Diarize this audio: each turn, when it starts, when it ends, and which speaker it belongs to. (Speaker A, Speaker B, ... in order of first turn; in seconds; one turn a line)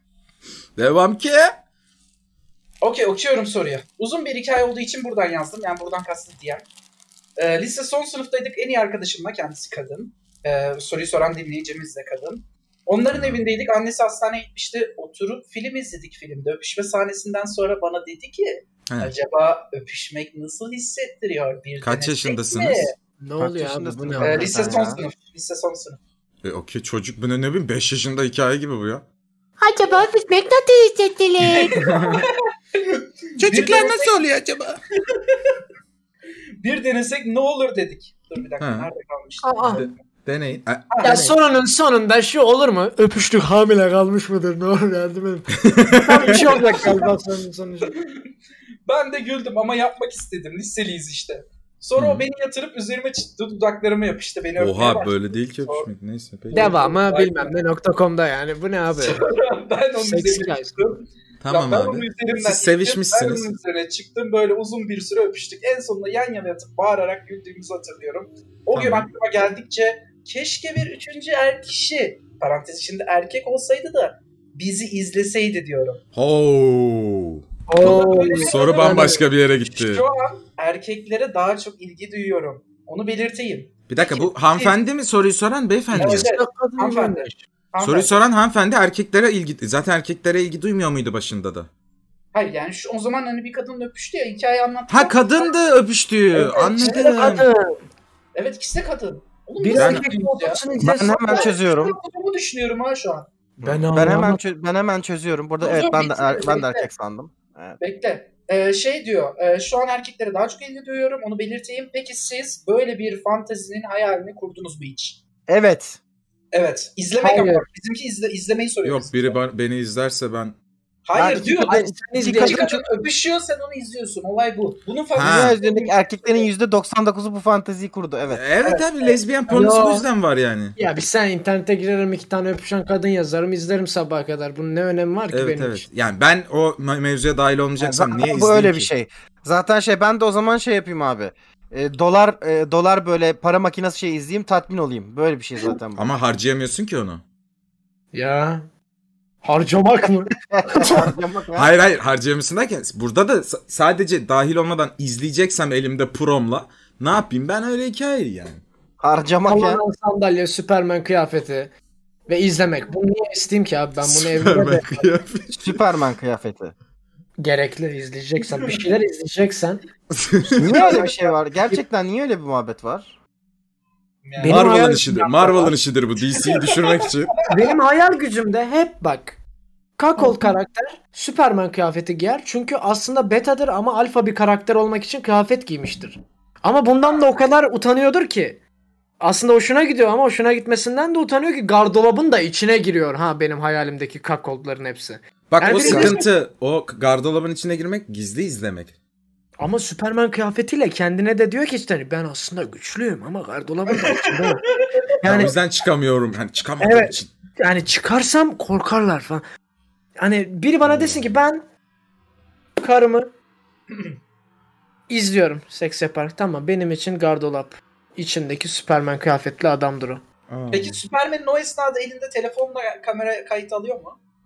Speaker A: 0.8-1.5
Speaker B: 2.8-6.7
Speaker B: 7.4-22.9
Speaker A: 13.1-13.4
Speaker A: 21.8-22.9
Speaker C: 23.2-24.7
Speaker D: 23.4-25.0
Speaker B: 24.2-26.0
Speaker A: 26.4-29.0
Speaker C: 29.6-31.8
Speaker B: 31.4-34.2
Speaker A: 31.8-32.2
Speaker A: 33.4-34.8
Speaker B: 35.1-35.6
Speaker B: 36.6-40.0
Speaker A: 38.6-38.9
Speaker C: 39.4-39.8
Speaker A: 39.7-41.3
Speaker B: 40.9-41.3
Speaker C: 41.0-47.9
Speaker A: 45.6-46.9
Speaker B: 46.2-47.1
Speaker B: 47.8-48.2
Speaker B: 48.9-55.9
Speaker A: 52.0-52.2
Speaker A: 54.6-56.7
Speaker B: 56.5-57.6
Speaker C: 56.5-59.2
Speaker B: 58.9-76.0
Speaker C: 60.0-60.8
Speaker A: 61.4-63.5
Speaker A: 68.7-69.1
Speaker A: 76.1-80.0
Speaker C: 77.7-79.2
Speaker B: 77.8-84.8
Speaker A: 83.9-86.3
Speaker B: 85.9-88.1
Speaker C: 86.0-87.4
Speaker A: 87.8-91.7
Speaker B: 92.3-95.5
Speaker A: 94.9-97.5
Speaker B: 96.3-97.2
Speaker C: 96.8-97.8
Speaker B: 98.3-100.6
Speaker C: 99.6-101.5
Speaker A: 99.7-100.1
Speaker D: 100.8-102.0
Speaker B: 101.3-103.3
Speaker A: 103.6-103.8
Speaker C: 103.6-104.4
Speaker D: 103.9-107.8
Speaker B: 105.6-106.9
Speaker B: 107.8-115.2
Speaker D: 115.5-116.0
Speaker B: 116.5-119.4
Speaker C: 117.2-117.7
Speaker A: 118.8-120.5
Speaker B: 121.0-126.5
Speaker D: 121.1-122.8
Speaker C: 121.5-122.6
Speaker A: 125.1-125.5
Speaker D: 125.2-128.4
Speaker A: 128.3-130.8
Speaker B: 128.6-129.2
Speaker C: 129.5-130.1
Speaker C: 130.8-135.8
Speaker A: 135.3-138.9
Speaker D: 137.8-146.1
Speaker A: 145.9-147.2
Speaker C: 148.1-148.7
Speaker C: 149.4-151.1
Speaker D: 150.5-151.7
Speaker A: 151.6-158.6
Speaker D: 159.0-159.8
Speaker C: 159.4-161.7
Speaker C: 162.3-165.1
Speaker A: 164.0-165.8
Speaker D: 165.6-166.7
Speaker C: 167.4-169.8
Speaker B: 168.5-168.8
Speaker A: 170.2-170.8
Speaker D: 170.6-173.1
Speaker B: 170.6-171.3
Speaker B: 174.2-175.7
Speaker C: 174.4-175.7
Speaker A: 174.4-177.3
Speaker B: 176.3-177.7
Speaker C: 177.4-179.4
Speaker C: 180.0-188.6
Speaker B: 180.2-180.5
Speaker C: 189.2-196.2
Speaker A: 195.5-198.9
Speaker B: 195.8-196.1
Speaker C: 199.6-204.6
Speaker B: 203.9-205.4
Speaker C: 205.2-205.5
Speaker A: 205.2-207.3
Speaker C: 206.8-209.4
Speaker C: 210.2-211.6
Speaker A: 210.8-211.2
Speaker C: 212.8-213.3
Speaker C: 215.1-220.2
Speaker A: 220.5-221.0
Speaker B: 220.7-224.2